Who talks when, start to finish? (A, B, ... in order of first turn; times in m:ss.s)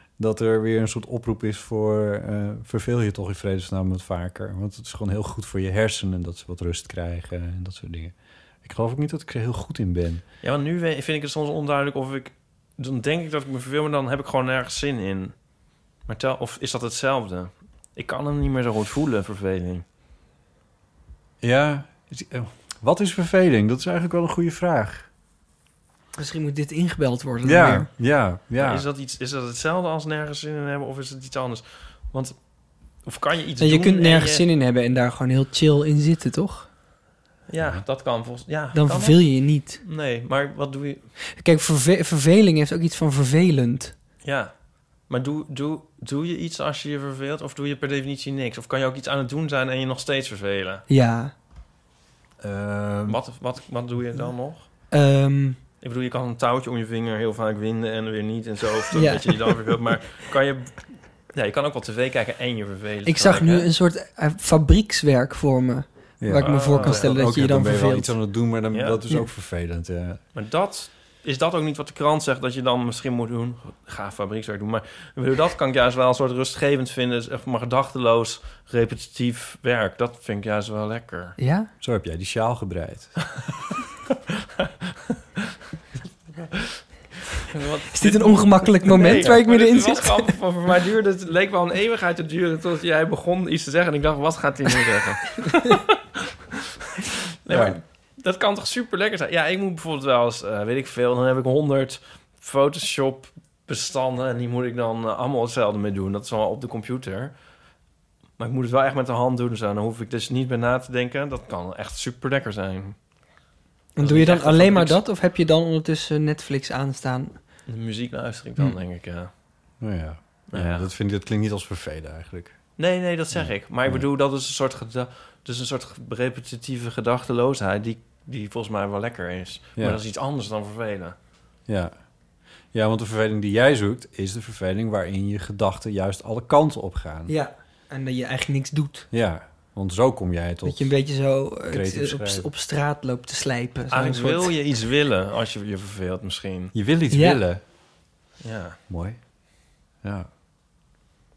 0:00.2-0:10.2 A
0:10.4-0:15.3 B
0:16.0-0:19.8 B
0:21.4-0:25.1 A
0:26.2-0:27.9 C
0:27.4-0:28.8 A
0:28.6-0:32.4 B
0:33.0-0:34.4 B
0:33.6-0:36.7 C
0:37.5-0:41.1 B
0:38.7-0:39.8 C
0:41.4-0:43.9 C
0:44.2-0:50.8 B
0:50.9-0:51.3 C
0:52.4-0:53.2 A
0:53.1-0:54.7 B
0:54.9-0:55.6 C
0:55.8-1:03.7 B
0:58.9-0:59.3 C
1:03.0-1:08.1 C
1:06.2-1:10.2 A
1:06.4-1:07.1 B
1:08.7-1:09.0 B
1:10.3-1:21.4 B
1:21.4-1:21.7 C
1:21.8-1:23.2 A
1:26.4-1:26.7 B
1:27.5-1:36.0 B
1:27.9-1:30.3 C
1:37.4-1:47.3 B
1:37.5-1:37.8 A
1:48.4-1:53.0 B
1:54.0-1:57.3 C
1:54.0-1:55.0 B
1:57.7-1:59.3 B
1:59.8-2:02.6 A
2:00.5-2:00.9 B
2:02.8-2:11.1 B
2:03.3-2:04.0 A
2:11.7-2:11.9 A
2:12.7-2:17.3 A
2:17.3-2:19.1 C
2:19.1-2:21.0 A
2:20.6-2:24.5 C
2:21.7-2:22.5 A
2:23.9-2:26.7 B
2:26.7-2:27.6 A
2:27.1-2:27.4 C
2:28.4-2:28.8 B
2:28.9-2:29.2 A
2:30.0-2:30.3 A